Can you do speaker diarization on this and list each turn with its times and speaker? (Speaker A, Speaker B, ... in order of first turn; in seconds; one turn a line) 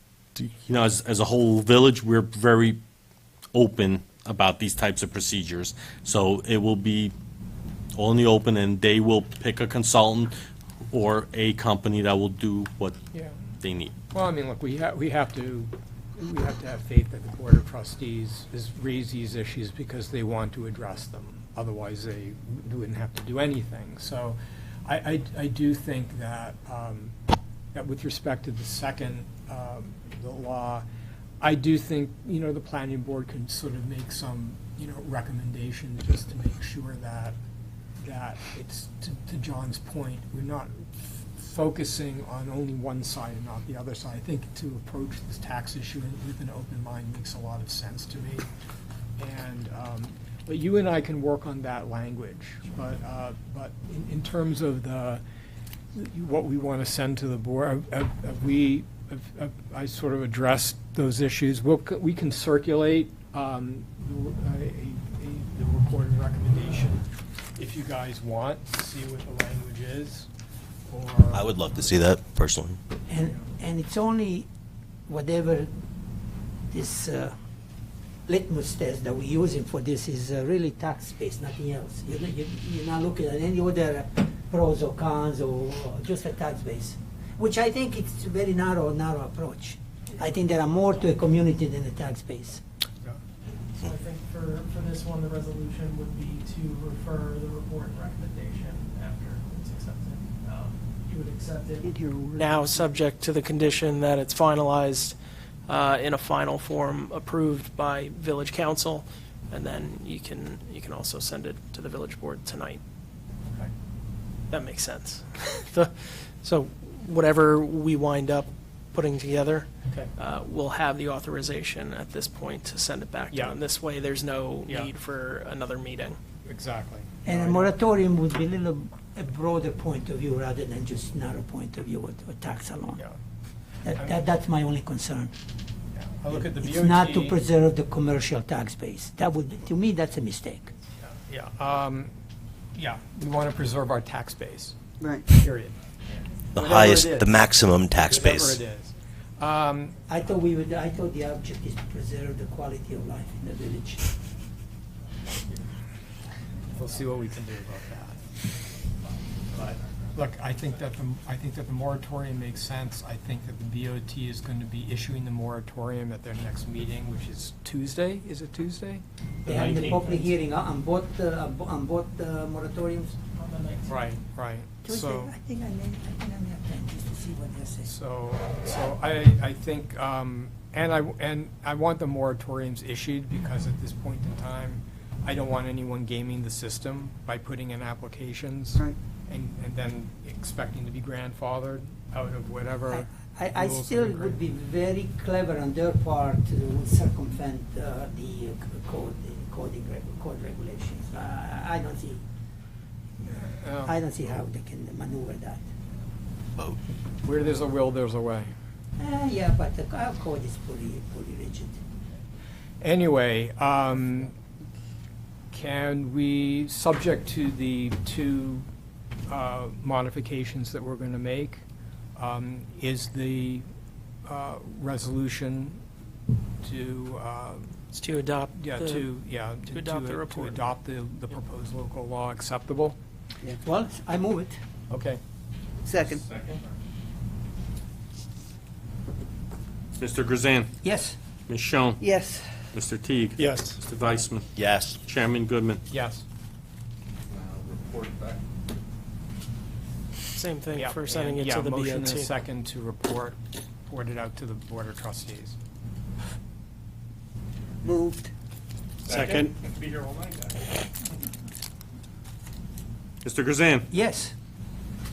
Speaker A: 0.3-2.8
Speaker A: 3.5-7.1
Speaker A: 7.9-10.3
Speaker A: 10.9-13.0
Speaker A: 13.6-13.9
Speaker B: 14.1-27.1
Speaker B: 27.7-30.8
Speaker B: 31.4-37.4
Speaker B: 38.0-48.5
Speaker B: 49.2-55.2
Speaker B: 55.9-67.0
Speaker B: 67.5-70.3
Speaker B: 70.9-72.0
Speaker C: 71.3-72.8
Speaker D: 73.1-74.5
Speaker D: 75.1-75.7
Speaker D: 76.7-77.3
Speaker D: 78.3-92.6
Speaker E: 93.7-112.8
Speaker D: 102.0-102.6
Speaker E: 114.5-126.2
Speaker B: 119.8-120.1
Speaker B: 123.3-123.6
Speaker B: 124.7-124.9
Speaker B: 126.4-127.7
Speaker D: 127.2-133.0
Speaker D: 133.8-135.3
Speaker B: 133.9-134.2
Speaker B: 135.9-137.4
Speaker D: 136.3-140.7
Speaker B: 141.0-142.1
Speaker B: 142.7-145.8
Speaker F: 145.0-145.2
Speaker C: 146.5-148.6
Speaker B: 146.5-147.3
Speaker B: 148.0-150.0
Speaker D: 150.1-154.0
Speaker B: 156.7-158.2
Speaker B: 159.5-170.0
Speaker D: 169.4-173.2
Speaker E: 169.4-170.3
Speaker E: 173.3-174.0
Speaker B: 173.9-175.3
Speaker D: 174.8-177.9
Speaker B: 177.8-194.4
Speaker D: 192.9-202.2
Speaker B: 203.2-203.9
Speaker D: 203.8-205.6
Speaker B: 207.2-208.5
Speaker D: 209.0-211.8
Speaker B: 212.8-214.3
Speaker B: 215.5-218.7
Speaker B: 219.3-221.6
Speaker B: 222.2-223.7
Speaker B: 224.2-225.8
Speaker B: 226.6-227.8
Speaker E: 227.9-230.6
Speaker B: 228.5-233.0
Speaker D: 233.6-234.6
Speaker B: 234.9-235.2
Speaker F: 235.9-236.2
Speaker A: 236.0-236.6
Speaker A: 240.0-240.8
Speaker D: 240.8-241.2
Speaker A: 241.5-242.0
Speaker F: 242.0-242.5
Speaker A: 242.7-244.5
Speaker B: 243.4-243.8
Speaker C: 244.6-245.0
Speaker A: 245.0-245.8
Speaker B: 245.9-246.2
Speaker F: 247.7-248.3
Speaker E: 250.3-252.3
Speaker B: 250.8-255.6
Speaker F: 257.8-258.3
Speaker F: 259.1-260.5
Speaker A: 259.1-259.5
Speaker A: 263.2-263.9
Speaker D: 263.9-264.3